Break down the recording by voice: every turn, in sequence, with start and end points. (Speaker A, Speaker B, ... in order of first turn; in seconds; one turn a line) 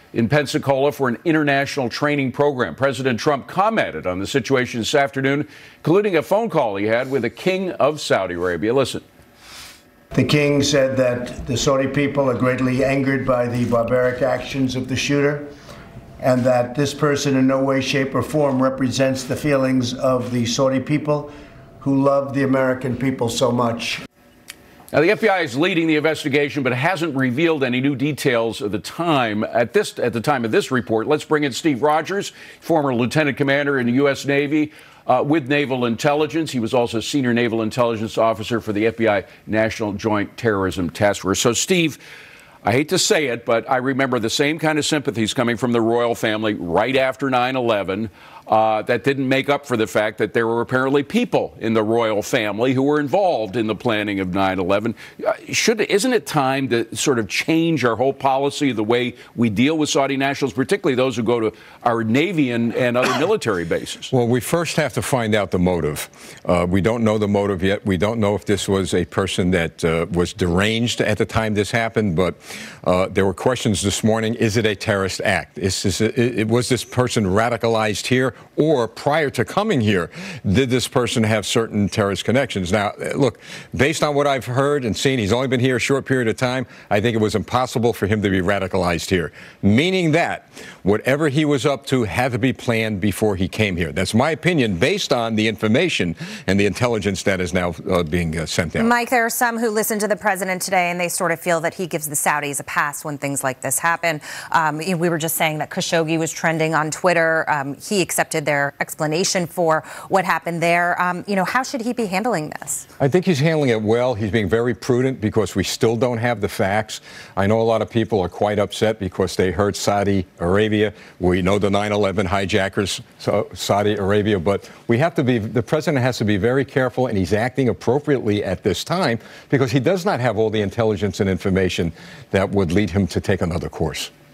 Speaker A: 0.1-9.0
Speaker B: 10.1-15.5
Speaker B: 16.2-24.0
Speaker A: 24.9-42.0
Speaker A: 42.6-64.1
Speaker C: 64.1-98.9
Speaker D: 98.8-112.8
Speaker C: 113.0-134.1